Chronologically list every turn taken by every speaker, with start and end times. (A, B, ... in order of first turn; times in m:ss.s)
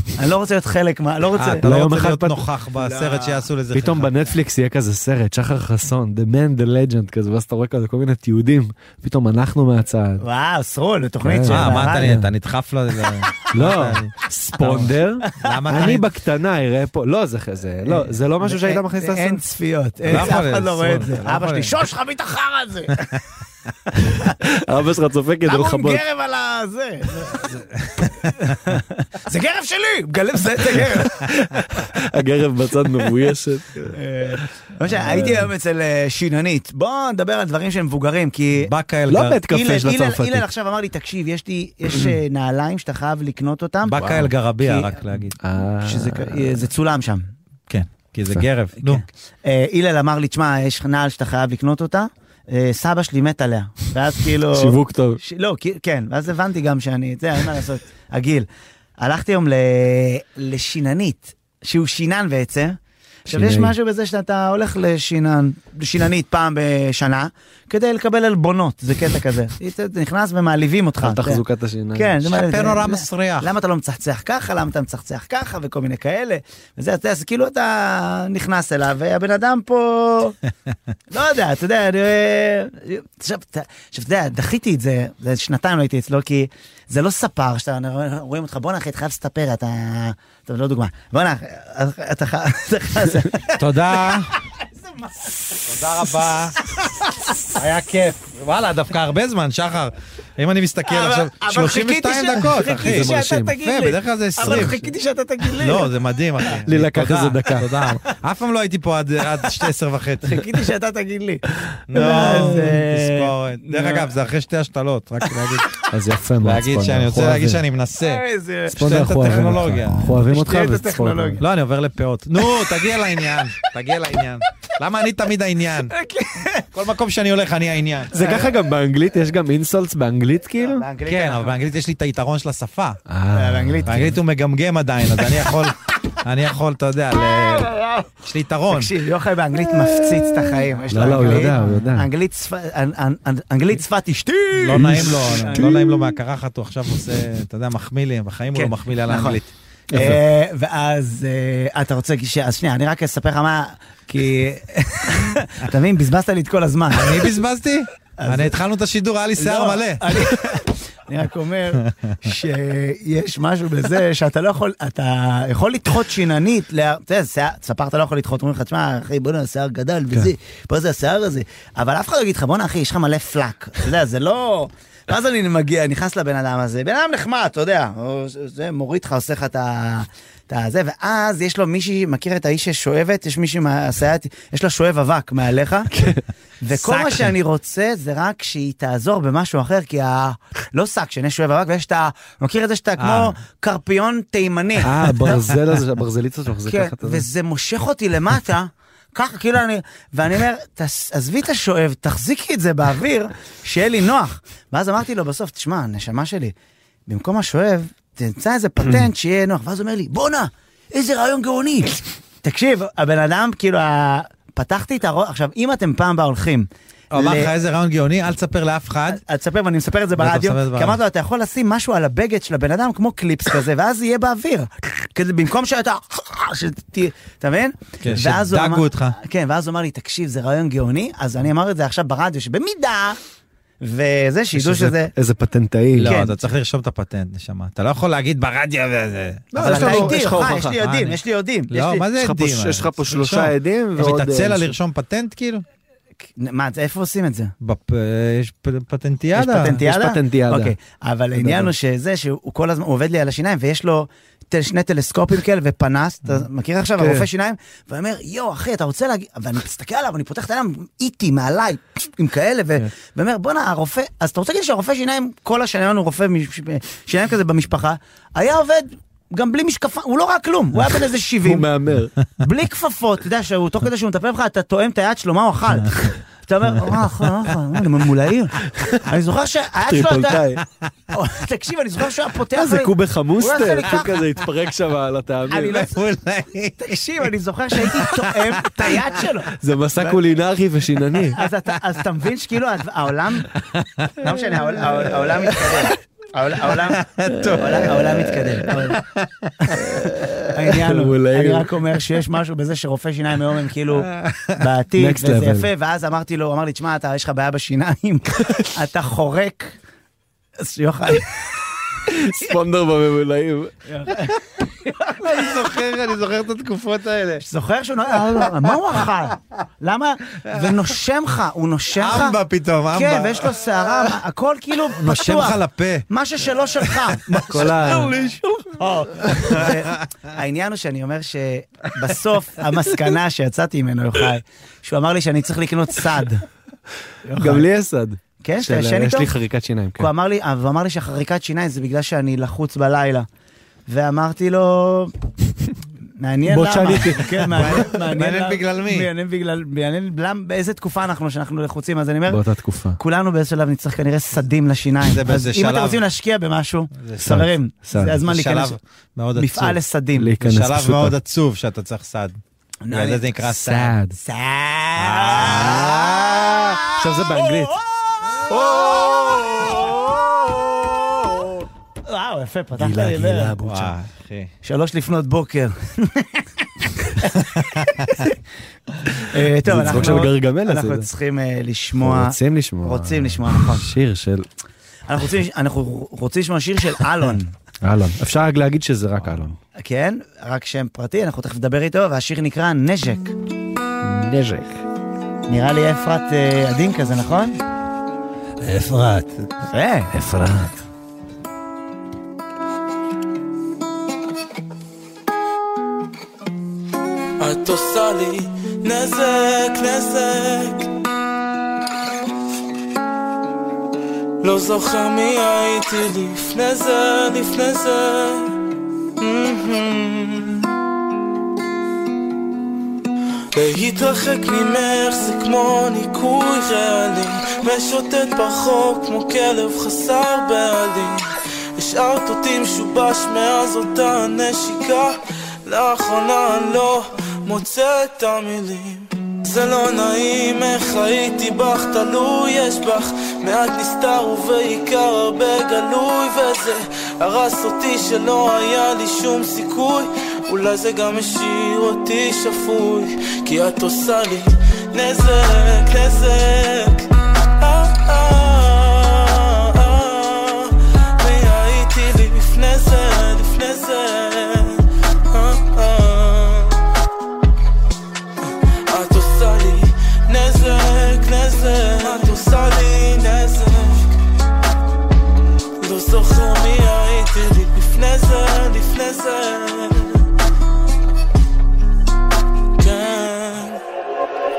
0:00.1-0:01.6 A
0:01.4-0:04.1 B
0:01.4-0:02.4 C
0:02.8-0:03.5 A
0:03.7-0:10.2 C
0:10.2-0:12.1 A
0:11.2-0:12.3 C
0:11.5-0:14.1 B
0:13.5-0:19.4 C
0:15.3-0:15.9 A
0:15.4-0:16.1 B
0:17.8-0:23.2 A
0:20.0-0:21.7 B
0:23.9-0:24.4 A
0:24.4-0:26.0 C
0:25.4-0:27.5 A
0:27.4-0:28.5 B
0:28.4-0:31.3 A
0:30.7-0:33.9 C
0:33.9-0:38.7 A
0:35.0-0:35.4 C
0:38.6-0:39.4 B
0:39.1-0:40.4 C
0:39.5-0:44.0 A
0:43.8-0:45.4 B
0:43.9-0:44.3 C
0:44.6-0:44.9 A
0:45.4-0:46.6 C
0:45.8-0:47.2 A
0:47.7-0:49.0 B
0:48.8-0:58.5 A
0:54.5-0:55.2 C
0:59.0-1:02.8 A
1:03.3-1:11.4 A
1:03.3-1:03.7 C
1:11.0-1:12.2 C
1:11.9-1:20.4 A
1:12.3-1:13.5 B
1:21.1-1:35.6 A
1:33.6-1:34.3 B
1:35.6-1:36.6 B
1:36.6-1:37.4 A
1:37.5-1:44.8 B
1:40.8-1:45.9 A
1:42.8-1:43.6 C
1:44.4-1:44.9 C
1:45.6-1:50.4 B
1:46.6-1:47.7 C
1:50.2-1:54.1 A
1:51.9-1:55.8 B
1:52.0-1:52.7 C
1:55.9-1:57.6 C
1:56.4-2:00.1 B
1:58.0-1:58.8 A
1:58.7-2:01.4 C
2:00.1-2:01.4 A
2:01.4-2:05.9 B
2:02.4-2:03.4 A
2:05.9-2:06.7 A
2:06.7-2:08.2 B
2:08.1-2:10.8 C
2:08.2-2:08.5 A
2:10.6-2:11.6 A
2:11.0-2:13.0 B
2:13.1-2:14.2 C
2:13.3-2:14.1 A
2:13.8-2:18.9 B
2:17.6-2:18.0 A
2:18.7-2:25.8 A
2:20.1-2:22.1 C
2:24.6-2:30.2 B
2:24.8-2:25.9 C
2:28.5-2:29.4 A
2:29.9-2:37.3 A
2:29.9-2:30.2 C
2:36.9-2:40.3 B
2:38.2-2:38.6 A
2:39.4-3:05.9 A
3:05.9-3:06.2 C
3:06.6-3:14.9 A
3:06.7-3:07.3 B
3:13.0-3:13.4 B
3:14.8-3:17.2 C
3:16.7-3:26.5 A
3:27.1-3:37.5 A
3:37.1-3:39.2 B
3:39.1-3:53.2 A
3:40.1-3:41.0 B
3:48.0-3:49.2 B
3:53.8-3:55.1 A
3:54.6-3:56.1 C
3:56.0-4:01.2 B
3:56.0-3:56.3 A
3:59.5-4:00.8 C
3:59.6-4:02.0 A
4:01.7-4:05.6 B
4:02.2-4:04.7 C
4:06.4-4:07.5 A
4:07.6-4:09.8 B
4:09.3-4:31.6 A
4:09.8-4:10.7 C
4:11.4-4:11.7 C
4:17.0-4:17.3 C
4:31.4-4:32.1 C
4:32.4-4:40.5 A
4:38.8-4:39.0 C
4:39.9-4:40.6 C
4:41.1-4:44.3 A
4:42.5-4:45.8 C
4:45.5-4:46.0 A
4:45.6-4:47.2 B
4:46.8-4:50.2 A
4:47.8-4:49.1 B
4:49.6-4:51.4 C
4:51.3-4:53.5 A
4:54.0-4:54.3 B
4:54.2-4:57.0 A
4:56.7-4:58.1 B
4:57.6-4:59.0 A
4:58.6-4:59.7 B
4:59.9-5:01.7 C
5:00.5-5:09.8 A
5:04.1-5:04.6 B
5:05.0-5:05.7 C
5:10.6-5:11.4 A
5:12.1-5:13.7 C
5:13.9-5:14.3 A
5:14.8-5:15.4 A
5:15.2-5:17.4 B
5:17.4-5:22.4 A
5:20.4-5:20.8 B
5:22.0-5:24.1 B
5:22.9-5:28.1 A
5:24.9-5:26.1 B
5:26.8-5:28.4 B
5:27.5-5:28.2 C
5:28.8-5:36.4 A
5:29.4-5:29.8 B
5:37.2-5:37.7 A
5:37.4-5:40.1 C
5:38.4-5:39.3 A
5:40.0-5:43.3 A
5:43.9-5:45.1 A
5:46.2-5:52.4 A
5:46.5-5:47.9 C
5:47.5-5:49.1 B
5:52.3-5:53.0 C
5:53.0-5:58.8 A
5:55.0-5:56.0 B
5:57.0-5:57.4 B
5:57.2-5:58.2 C
5:58.2-5:59.8 B
5:59.4-6:00.3 A
6:00.2-6:01.1 C
6:00.4-6:02.4 B
6:02.8-6:03.5 A
6:02.9-6:03.9 B
6:03.5-6:04.2 C
6:04.1-6:10.3 A
6:05.0-6:06.8 B
6:06.9-6:07.8 C
6:08.5-6:10.0 B
6:12.0-6:13.6 A
6:12.8-6:13.9 C
6:13.6-6:14.5 B
6:14.6-6:18.3 A
6:17.4-6:18.1 B
6:19.1-6:23.9 A
6:19.6-6:21.1 C
6:22.0-6:24.4 C
6:25.1-6:27.5 A
6:27.8-6:29.6 C
6:29.8-6:33.3 A
6:34.0-6:34.8 C
6:35.5-6:37.6 A
6:38.6-6:39.4 B
6:39.7-6:40.1 A
6:40.1-6:40.8 C
6:47.4-6:50.9 D
6:54.4-6:58.5 D
6:59.2-7:00.7 D
7:03.5-7:37.1 D
7:37.6-7:46.8 D
7:48.9-7:54.1 D
7:55.8-8:00.2 D
8:02.8-8:03.8 D